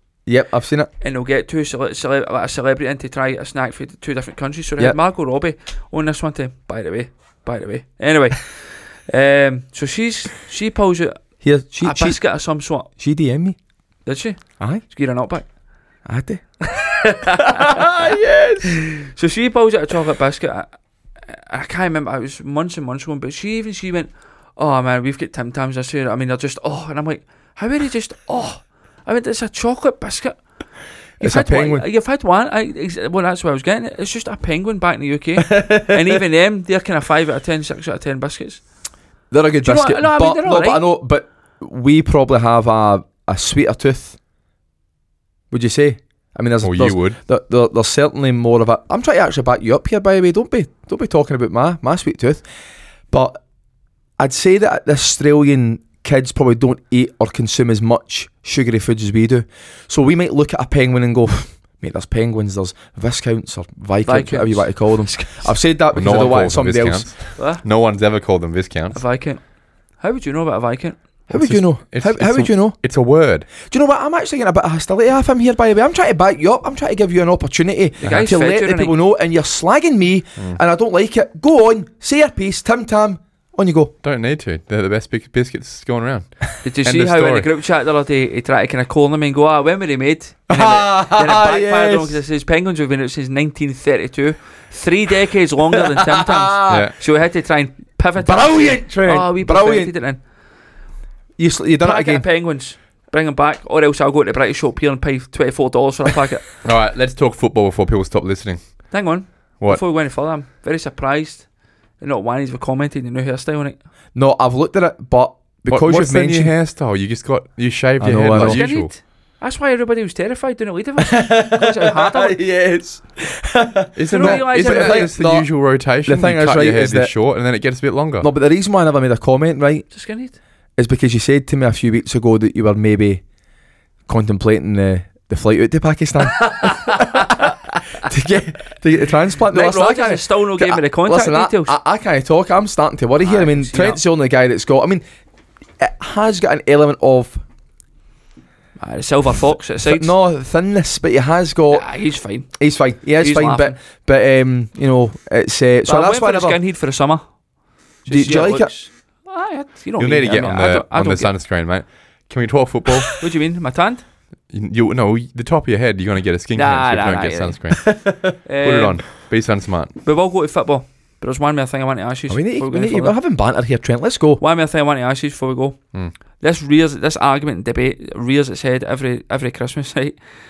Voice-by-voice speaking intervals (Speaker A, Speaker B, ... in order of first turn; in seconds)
Speaker A: 0.2-0.9, 11.4-12.2, 12.9-13.6, 14.6-14.8, 16.0-16.4, 31.2-31.8, 39.3-44.2, 45.5-52.4, 53.1-53.4, 54.2-67.1, 71.3-72.8, 73.6-83.9, 90.5-92.2, 96.0-96.9, 98.2-99.9, 101.4-102.2, 114.1-116.5, 118.0-118.7, 121.1-127.1, 128.2-129.9, 130.8-133.2, 134.1-145.0, 145.8-147.4, 149.8-151.9, 152.5-156.6, 158.1-158.7, 172.3-174.4
Speaker B: 1.0-11.2, 11.8-12.9, 14.1-15.5, 16.7-30.4, 31.2-38.6, 39.6-40.8, 64.0-64.8, 67.3-67.6, 68.9-71.0, 78.0-78.9, 86.6-100.2, 101.8-106.5, 108.9-113.8, 118.3-122.4, 124.1-125.1, 129.9-130.4, 136.5-137.1, 139.5-141.8, 143.2-144.0, 148.8-150.1, 151.7-152.5, 153.2-153.8, 155.8-157.4, 158.0-161.3, 163.1-164.0, 166.5-169.3, 170.0-173.2, 174.4-180.2
Speaker C: 46.6-47.2, 65.9-69.0, 71.3-73.5, 84.0-87.5, 96.7-96.9, 106.6-109.0, 115.7-118.9, 124.0-128.3, 160.0-163.2, 164.5-169.9